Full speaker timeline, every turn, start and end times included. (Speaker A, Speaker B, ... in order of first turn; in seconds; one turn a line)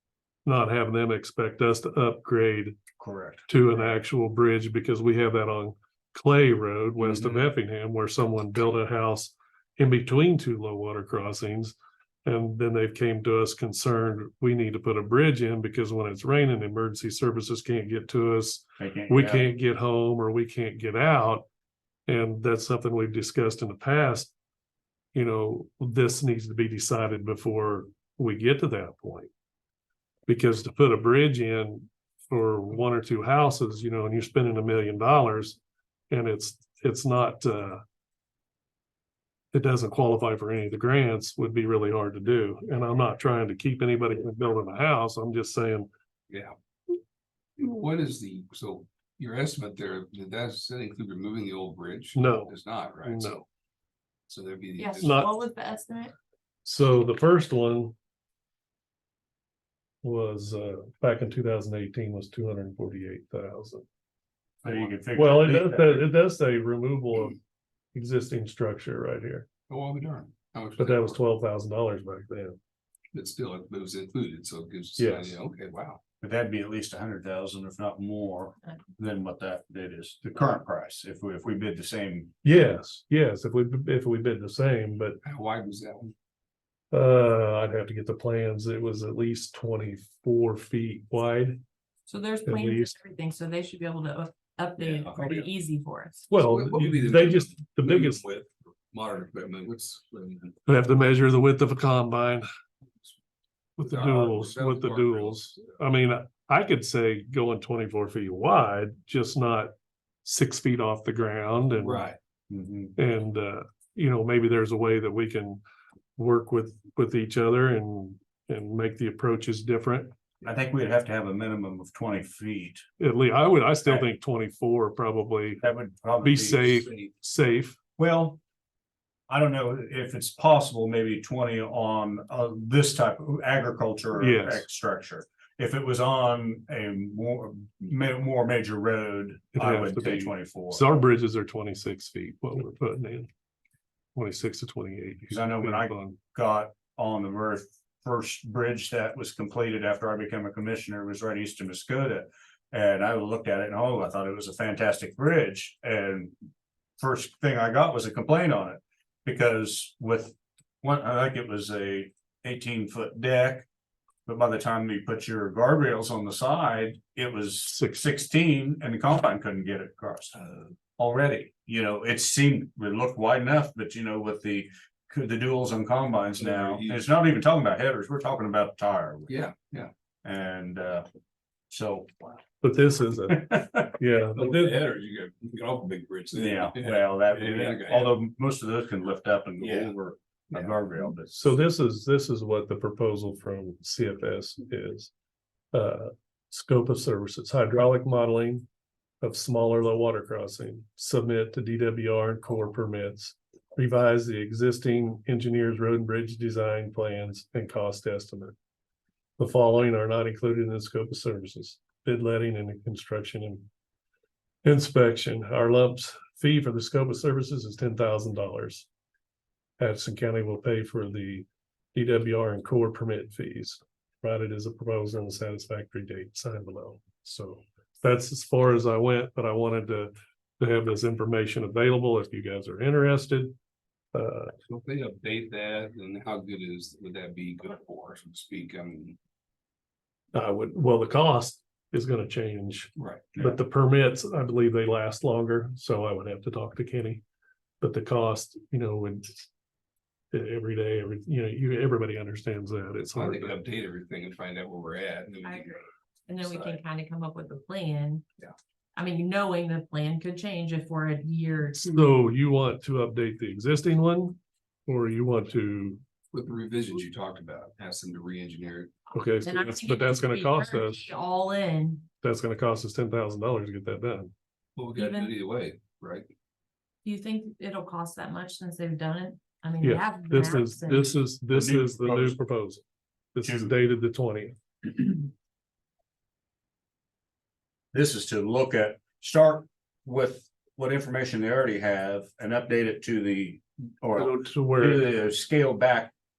Speaker A: 0.5-2.8
Speaker B: 3.0-3.5
Speaker A: 3.5-21.5
Speaker B: 7.0-7.5
Speaker B: 18.8-19.5
Speaker A: 22.1-24.3
Speaker A: 25.1-29.3
Speaker A: 30.3-35.6
Speaker A: 36.1-37.8
Speaker A: 39.5-45.9
Speaker C: 47.6-53.4
Speaker A: 52.1-53.5
Speaker C: 54.3-55.3
Speaker D: 54.8-56.1
Speaker A: 55.0-55.3
Speaker A: 56.6-58.0
Speaker A: 60.0-63.9
Speaker B: 64.6-66.1
Speaker A: 65.1-67.4
Speaker A: 67.9-69.5
Speaker C: 69.7-71.2
Speaker A: 70.8-72.6
Speaker C: 73.1-76.0
Speaker A: 75.0-75.4
Speaker B: 76.2-82.3
Speaker A: 82.4-85.2
Speaker C: 85.2-86.1
Speaker A: 86.9-91.6
Speaker D: 92.1-96.3
Speaker A: 92.5-92.9
Speaker C: 94.8-95.5
Speaker A: 96.3-98.2
Speaker C: 96.3-100.6
Speaker A: 100.7-102.5
Speaker A: 103.8-109.7
Speaker C: 103.8-105.7
Speaker A: 110.2-112.1
Speaker C: 111.8-112.2
Speaker B: 112.5-113.0
Speaker A: 113.0-115.6
Speaker A: 116.2-120.1
Speaker B: 120.4-122.8
Speaker A: 123.0-125.6
Speaker B: 125.6-126.9
Speaker A: 126.2-127.8
Speaker B: 128.0-128.4
Speaker B: 129.3-140.8
Speaker A: 134.2-134.7
Speaker A: 139.6-143.3
Speaker A: 144.2-146.2
Speaker B: 145.3-156.3
Speaker B: 157.0-163.7
Speaker B: 164.3-170.4
Speaker A: 167.7-168.1
Speaker B: 171.0-179.5
Speaker C: 176.4-177.1
Speaker C: 179.3-179.9
Speaker B: 180.2-181.1
Speaker B: 181.7-182.4
Speaker A: 182.6-184.8
Speaker B: 183.3-184.0
Speaker C: 184.3-188.2
Speaker B: 186.3-191.5
Speaker C: 189.6-190.0
Speaker A: 191.3-195.1
Speaker A: 195.7-198.7
Speaker A: 199.2-208.6
Speaker A: 209.4-213.7
Speaker A: 214.6-218.9
Speaker A: 219.8-233.5
Speaker A: 234.1-234.6
Speaker C: 234.7-239.2
Speaker A: 240.3-247.2
Speaker C: 243.0-243.3
Speaker B: 243.3-243.6
Speaker A: 247.8-249.5
Speaker A: 250.3-253.6
Speaker C: 253.2-255.8
Speaker D: 255.4-255.7
Speaker D: 256.3-258.2
Speaker C: 256.4-256.8
Speaker D: 259.0-262.1
Speaker A: 261.9-266.0
Speaker C: 266.3-268.9
Speaker A: 269.1-271.0
Speaker D: 269.4-272.1
Speaker A: 272.2-274.3
Speaker C: 274.8-276.3
Speaker D: 274.9-275.3
Speaker D: 277.0-281.2
Speaker A: 279.8-282.8
Speaker B: 281.5-282.4
Speaker A: 283.4-285.1
Speaker B: 283.4-283.7
Speaker B: 287.9-296.1
Speaker A: 294.1-295.1